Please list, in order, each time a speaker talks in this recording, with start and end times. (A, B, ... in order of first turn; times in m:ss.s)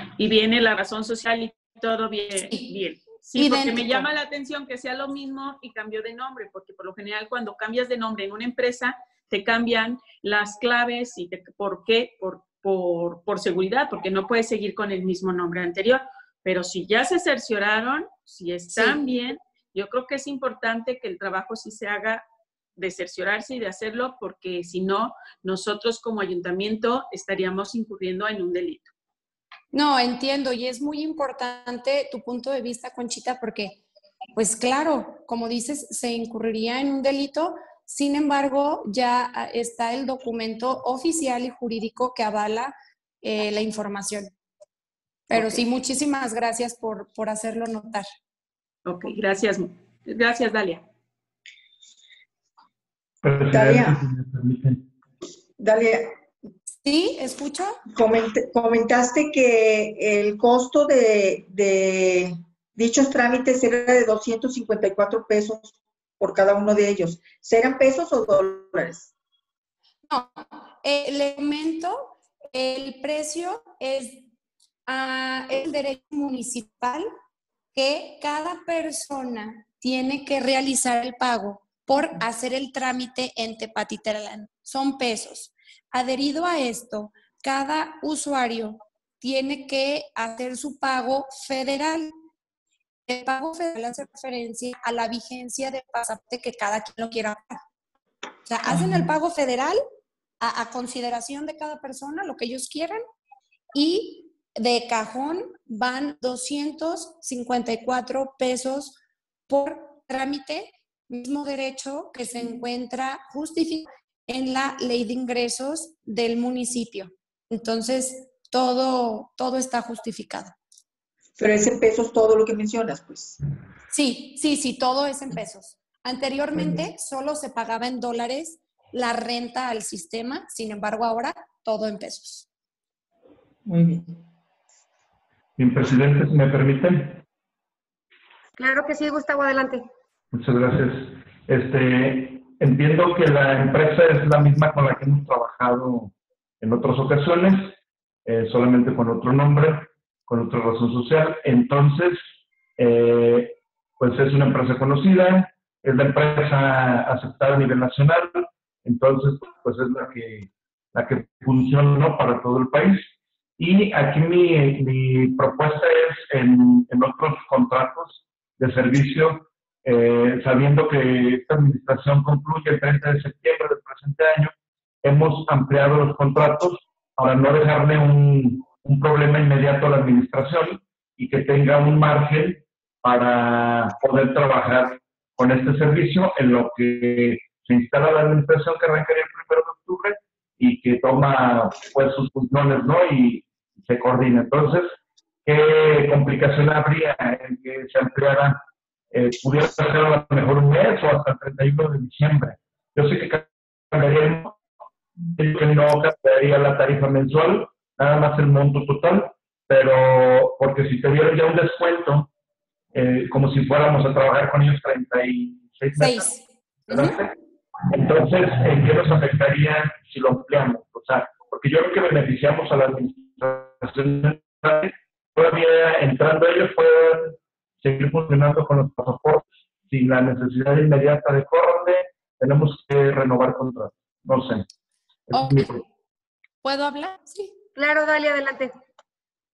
0:00.2-0:22.2 A
0:03.4-0:04.1 B
0:22.8-0:28.9 A
0:29.7-0:33.8 B
0:34.3-0:44.3 B
0:45.3-0:48.1 B
0:48.8-0:50.8 A
0:53.2-0:54.8 C
0:53.5-0:54.0 D
0:55.6-0:56.1 D
0:56.8-0:57.8 B
0:57.9-1:09.1 D
1:10.1-1:14.2 B
1:14.9-1:17.1 B
1:17.7-1:32.1 B
1:33.1-1:37.6 B
1:38.4-1:39.8 B
1:40.4-1:43.0 B
1:43.7-1:49.0 B
1:49.5-2:00.5 B
2:01.4-2:03.4 D
2:03.9-2:12.5 B
2:13.6-2:14.2 D
2:15.6-2:17.2 C
2:18.6-2:19.9 E
2:20.3-2:27.7 C
2:28.2-2:32.2 C
2:32.8-3:24.6 C
3:25.4-3:32.3 C
3:32.9-3:36.3 C
3:36.0-3:37.2 B
3:36.9-3:54.6 C
3:55.3-3:55.8 C
3:55.3-3:55.7 B
3:56.6-3:57.5 B
3:57.8-3:58.7 E